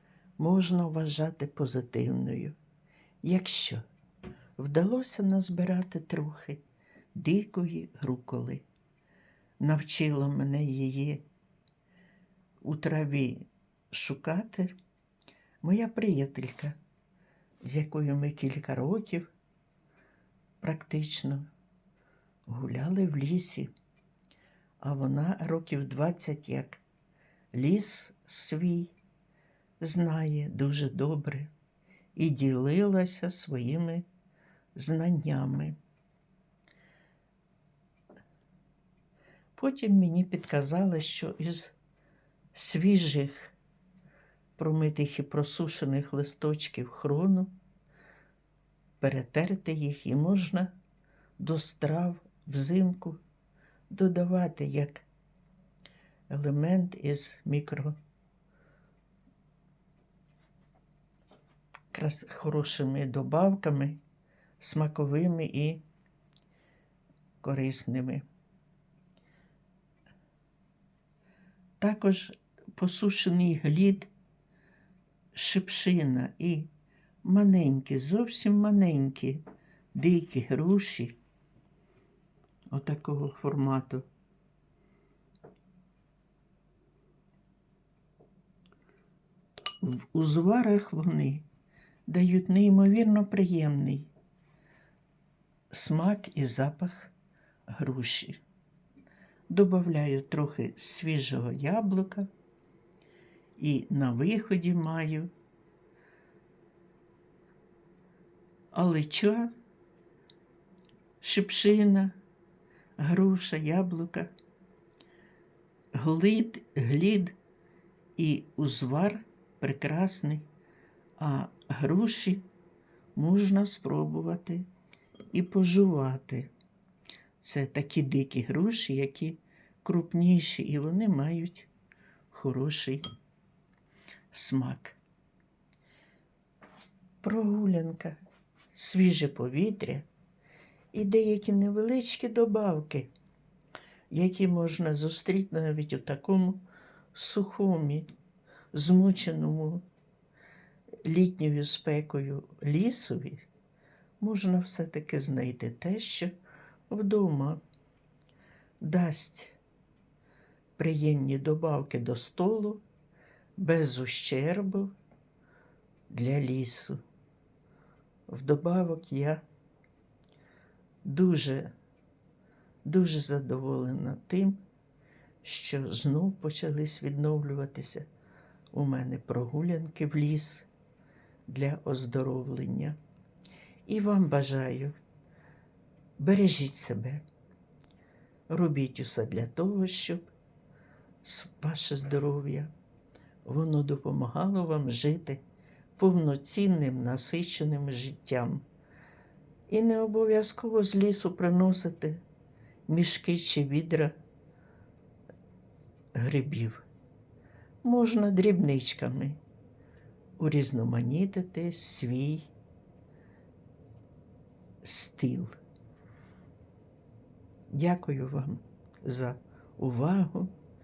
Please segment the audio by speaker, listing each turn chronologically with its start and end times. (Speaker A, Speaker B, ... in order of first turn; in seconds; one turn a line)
Speaker A: 0.4-2.6
Speaker A: 3.2-3.8
Speaker A: 4.6-6.6
Speaker A: 7.2-8.7
Speaker A: 9.6-11.2
Speaker A: 12.6-14.8
Speaker A: 15.6-16.8
Speaker A: 17.6-19.3
Speaker A: 20.6-21.5
Speaker A: 22.5-23.7
Speaker A: 24.8-26.8
Speaker A: 27.5-28.9
Speaker A: 29.8-31.5
Speaker A: 32.2-34.1
Speaker A: 34.8-35.8
Speaker A: 39.6-41.8
Speaker A: 42.5-43.5
Speaker A: 44.6-47.5
Speaker A: 49.0-50.7
Speaker A: 51.4-53.2
Speaker A: 53.9-55.1
Speaker A: 56.3-58.0
Speaker A: 61.9-64.0
Speaker A: 64.6-65.8
Speaker A: 67.4-68.2
Speaker A: 71.8-74.1
Speaker A: 75.3-76.7
Speaker A: 77.2-79.4
Speaker A: 79.9-81.2
Speaker A: 82.7-84.0
Speaker A: 89.8-91.5
Speaker A: 92.1-94.1
Speaker A: 95.7-97.1
Speaker A: 97.7-98.4
Speaker A: 99.5-102.3
Speaker A: 103.6-105.3
Speaker A: 108.7-109.5
Speaker A: 111.2-112.2
Speaker A: 113.0-114.3
Speaker A: 116.0-117.4
Speaker A: 118.2-120.5
Speaker A: 121.2-122.5
Speaker A: 123.2-124.7
Speaker A: 125.3-126.5
Speaker A: 127.4-131.7
Speaker A: 132.3-133.0
Speaker A: 134.3-135.0
Speaker A: 137.2-138.2
Speaker A: 138.7-140.1
Speaker A: 140.9-143.1
Speaker A: 144.1-146.6
Speaker A: 147.1-148.1
Speaker A: 148.7-149.8
Speaker A: 151.1-153.5
Speaker A: 154.2-156.4
Speaker A: 156.9-157.6
Speaker A: 158.8-159.6
Speaker A: 160.8-162.8
Speaker A: 163.6-164.9
Speaker A: 166.1-167.0
Speaker A: 168.3-169.4
Speaker A: 171.0-171.7
Speaker A: 172.8-174.6
Speaker A: 175.4-178.1
Speaker A: 178.7-180.7
Speaker A: 181.5-183.0
Speaker A: 183.9-185.0
Speaker A: 186.2-187.2
Speaker A: 188.5-190.3
Speaker A: 191.2-192.7
Speaker A: 193.4-195.4
Speaker A: 196.0-198.6
Speaker A: 199.7-202.2
Speaker A: 202.9-204.2
Speaker A: 206.2-206.8
Speaker A: 207.8-209.4
Speaker A: 210.4-212.5
Speaker A: 214.8-215.6
Speaker A: 217.7-220.5